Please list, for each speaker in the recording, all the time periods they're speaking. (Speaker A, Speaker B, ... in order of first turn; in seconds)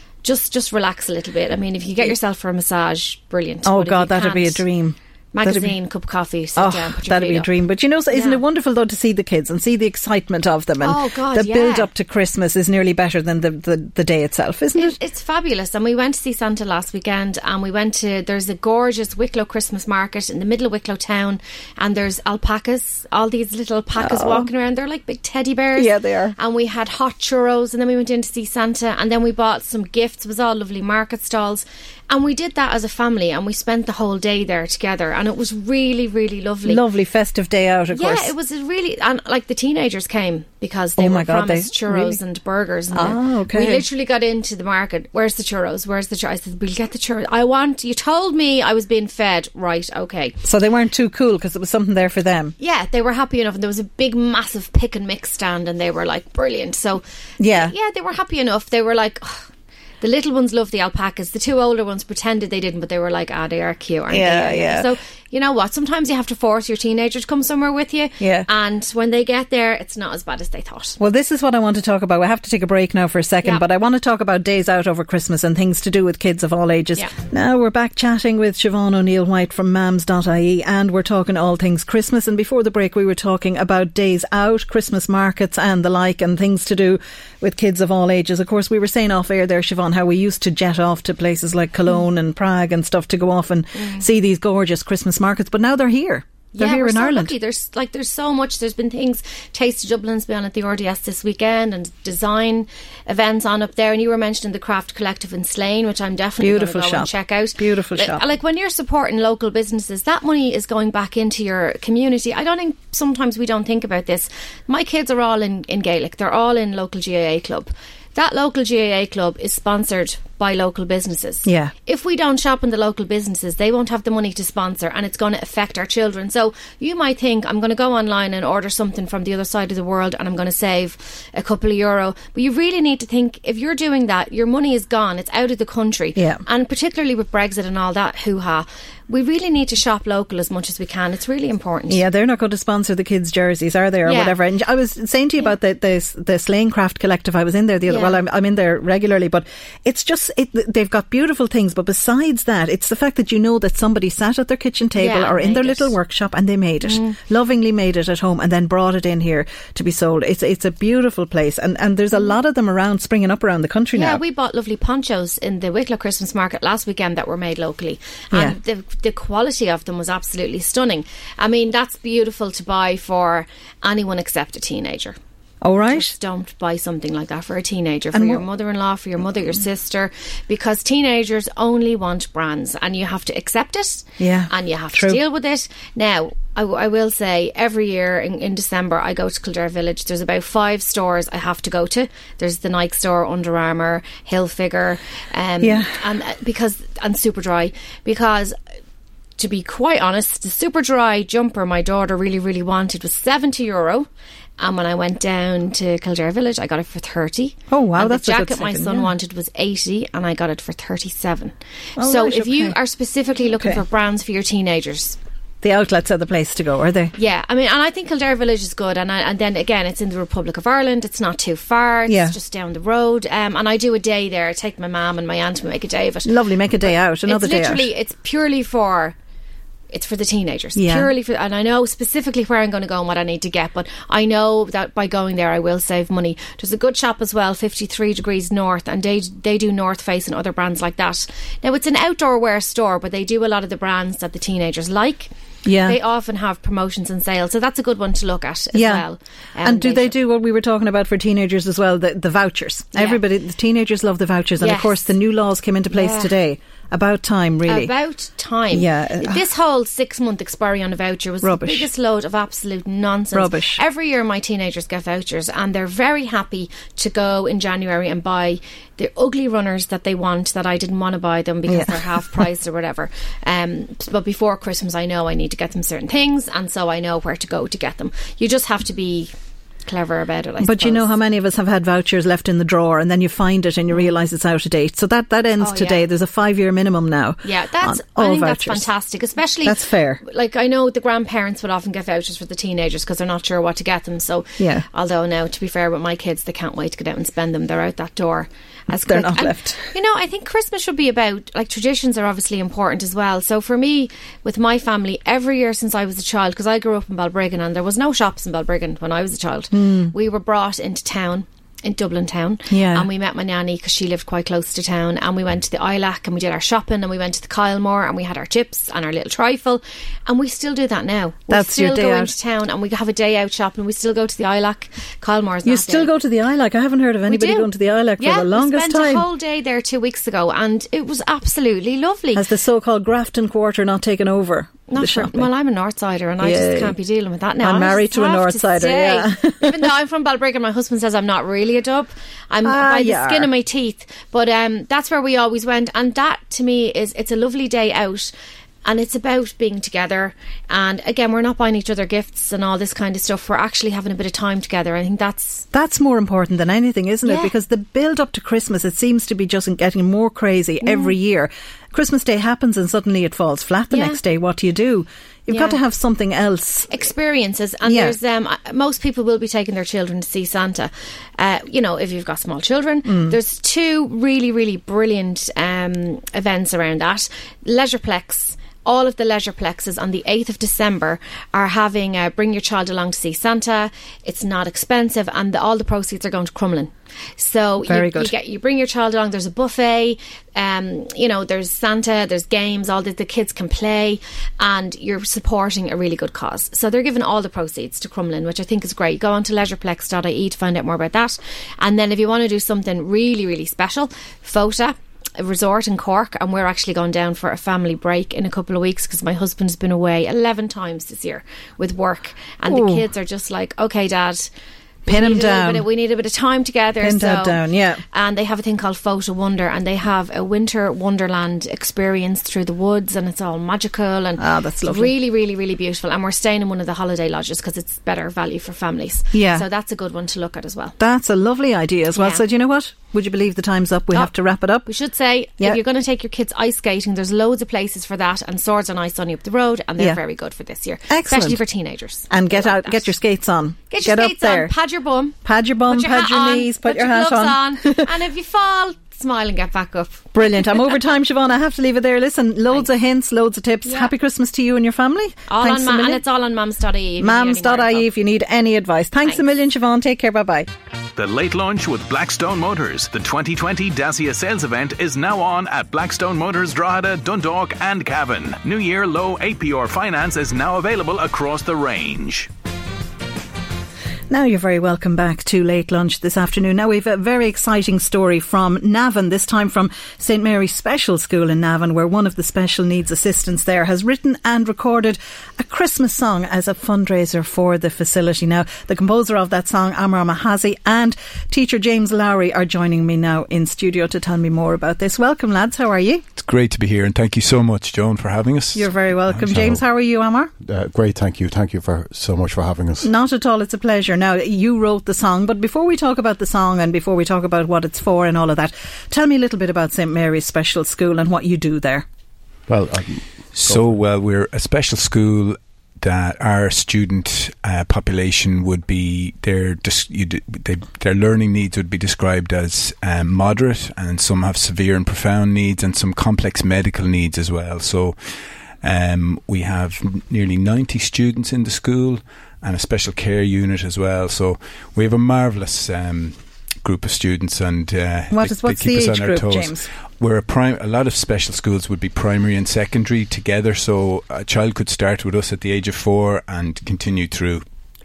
Speaker A: 0.2-4.6, 5.3-7.5, 8.1-8.4, 10.8-11.9, 14.8-36.8, 37.9-50.4, 52.6-59.5, 60.0-71.0, 93.7-94.1, 96.5-142.0, 144.0-144.4, 147.8-148.2, 154.9-155.9, 156.8-157.2, 163.9-175.2, 175.8-198.6, 199.4-204.1, 204.6-215.2, 217.2-229.1, 229.9-250.1, 252.9-253.2, 254.6-255.1, 255.9-256.3, 257.6-279.3, 279.9-281.1, 283.9-284.2, 285.6-286.1, 287.4-326.1, 327.3-332.4, 334.9-348.3, 348.8-355.6, 357.2-357.5, 360.8-361.1, 363.9-364.2, 365.5-365.8, 366.9-414.5, 415.1-430.9, 432.1-432.4, 434.8-443.1, 443.9-451.0, 453.9-454.1, 455.5-458.1
Speaker B: 3.6-5.7, 6.5-14.9, 23.9-24.5, 25.8-26.4, 36.6-38.3, 41.0-42.2, 42.9-43.9, 50.4-52.5, 57.4-57.7, 64.1-64.9, 68.2-68.5, 71.0-97.3, 106.4-108.2, 121.4-121.7, 136.2-136.4, 141.9-164.2, 175.6-176.1, 178.1-178.4, 184.2-185.2, 195.6-196.0, 207.7-209.1, 212.0-212.8, 213.5-213.8, 215.6-217.1, 222.1-222.3, 226.2-227.9, 230.8-231.1, 245.6-246.0, 248.7-249.1, 249.6-257.9, 258.7-259.4, 261.4-261.9, 263.3-263.8, 271.7-272.5, 280.6-288.9, 289.6-290.2, 294.6-294.9, 299.0-299.9, 309.7-310.1, 312.7-313.1, 321.5-322.3, 325.6-329.2, 332.3-335.5, 336.4-337.0, 337.6-339.8, 342.6-343.5, 355.7-366.9, 367.8-368.1, 373.1-373.4, 387.9-388.3, 412.7-413.1, 415.1-415.9, 417.0-418.0, 424.4-425.1, 429.3-429.6, 431.0-434.9, 441.1-441.6, 442.3-444.7, 445.4-448.1, 450.3-456.2, 457.2-460.7, 474.3-496.2, 498.7-500.5, 503.0-512.0, 538.3-539.9
Speaker C: 461.2-472.5
Speaker D: 496.3-499.8, 513.5-528.2, 528.8-547.6
Speaker E: 500.6-503.1, 512.7-514.0